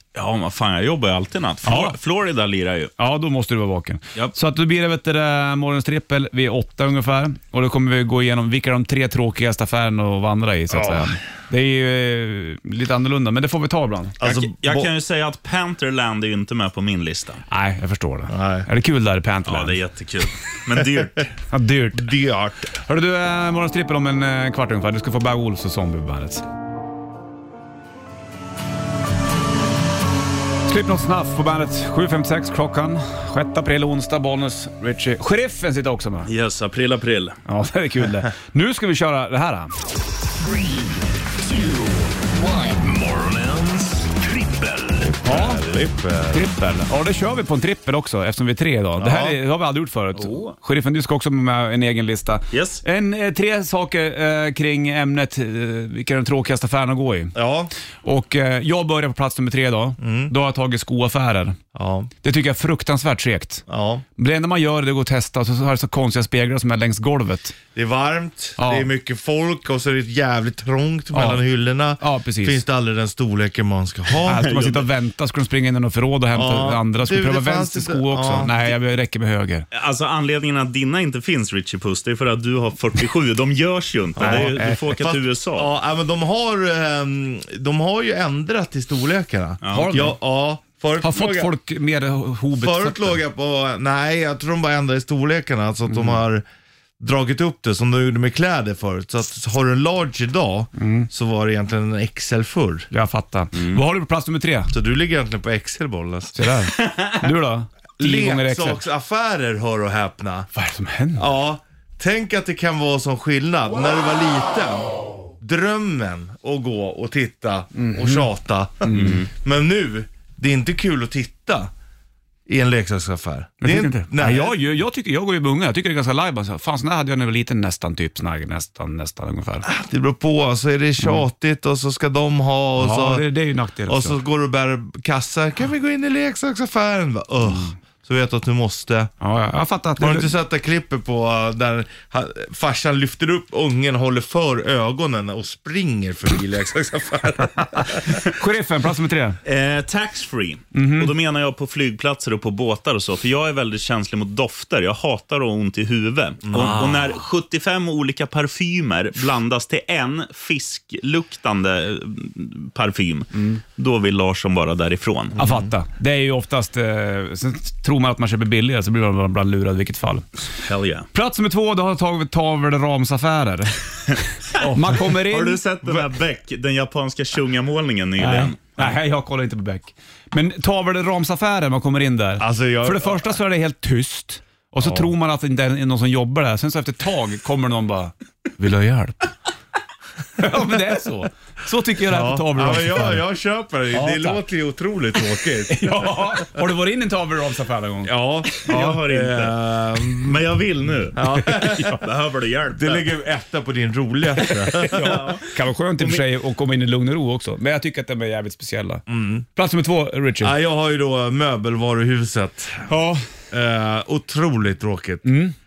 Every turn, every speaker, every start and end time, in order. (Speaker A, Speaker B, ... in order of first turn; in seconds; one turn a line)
Speaker A: 0.1-2.9
Speaker B: 1.6-2.0
Speaker B: 3.0-14.2
Speaker C: 10.7-11.2
Speaker C: 14.2-14.9
Speaker A: 14.2-17.4
Speaker B: 17.5-19.8
Speaker C: 18.3-18.7
Speaker A: 19.4-21.3
Speaker B: 21.5-22.1
Speaker C: 21.9-22.7
Speaker B: 22.8-26.4
Speaker B: 30.7-36.3
Speaker A: 36.3-37.4
Speaker B: 37.5-39.7
Speaker D: 41.5-41.8
Speaker D: 42.4-44.9
Speaker C: 45.0-46.4
Speaker B: 45.2-45.6
Speaker B: 46.3-57.3
Speaker C: 49.0-49.4
Speaker A: 50.2-50.5
Speaker A: 52.5-52.8
Speaker C: 57.3-57.7
Speaker B: 58.0-61.6
Speaker C: 60.0-60.3
Speaker C: 61.7-62.1
Speaker B: 62.2-63.6
Speaker C: 63.7-64.0
Speaker B: 64.2-67.5
Speaker C: 67.7-74.5
Speaker B: 68.6-68.9
Speaker B: 71.1-71.4
Speaker B: 72.0-72.6
Speaker B: 74.2-79.7
Speaker A: 74.4-74.9
Speaker C: 76.3-78.7
Speaker A: 79.7-85.7
Speaker C: 84.2-91.5
Speaker B: 84.2-85.0
Speaker A: 89.6-90.0
Speaker B: 89.7-90.1
Speaker B: 91.0-93.2
Speaker C: 92.5-96.4
Speaker B: 95.9-96.2
Speaker C: 97.0-102.9
Speaker B: 100.8-101.1
Speaker B: 102.9-104.7
Speaker A: 103.5-103.8
Speaker C: 104.7-106.4
Speaker B: 106.3-108.8
Speaker A: 106.8-107.1
Speaker C: 108.0-110.5
Speaker B: 110.5-111.2
Speaker C: 111.2-121.7
Speaker B: 117.7-118.3
Speaker B: 118.8-119.2
Speaker A: 118.9-119.3
Speaker C: 122.5-124.5
Speaker B: 123.6-129.7
Speaker C: 129.6-133.2
Speaker B: 132.8-134.2
Speaker C: 133.8-139.1
Speaker B: 137.5-137.7
Speaker B: 139.2-140.3
Speaker C: 140.0-148.2
Speaker B: 147.6-149.4
Speaker A: 149.4-165.4
Speaker B: 150.7-151.1
Speaker C: 156.5-157.0
Speaker C: 165.3-165.7
Speaker B: 165.4-170.3
Speaker A: 170.6-171.1
Speaker B: 171.1-175.6
Speaker A: 174.6-178.9
Speaker B: 178.2-189.3
Speaker C: 182.4-183.4
Speaker C: 184.8-185.1
Speaker B: 190.4-193.2
Speaker C: 192.1-196.5
Speaker B: 193.9-194.4
Speaker B: 195.7-198.1
Speaker C: 198.1-200.4
Speaker A: 198.6-203.1
Speaker C: 201.2-202.0
Speaker B: 201.2-202.0
Speaker C: 202.7-205.3
Speaker B: 204.5-209.0
Speaker A: 204.9-205.4
Speaker C: 209.1-209.4
Speaker B: 209.5-210.5
Speaker C: 210.4-212.9
Speaker B: 212.9-213.2
Speaker C: 213.5-215.3
Speaker B: 215.2-215.5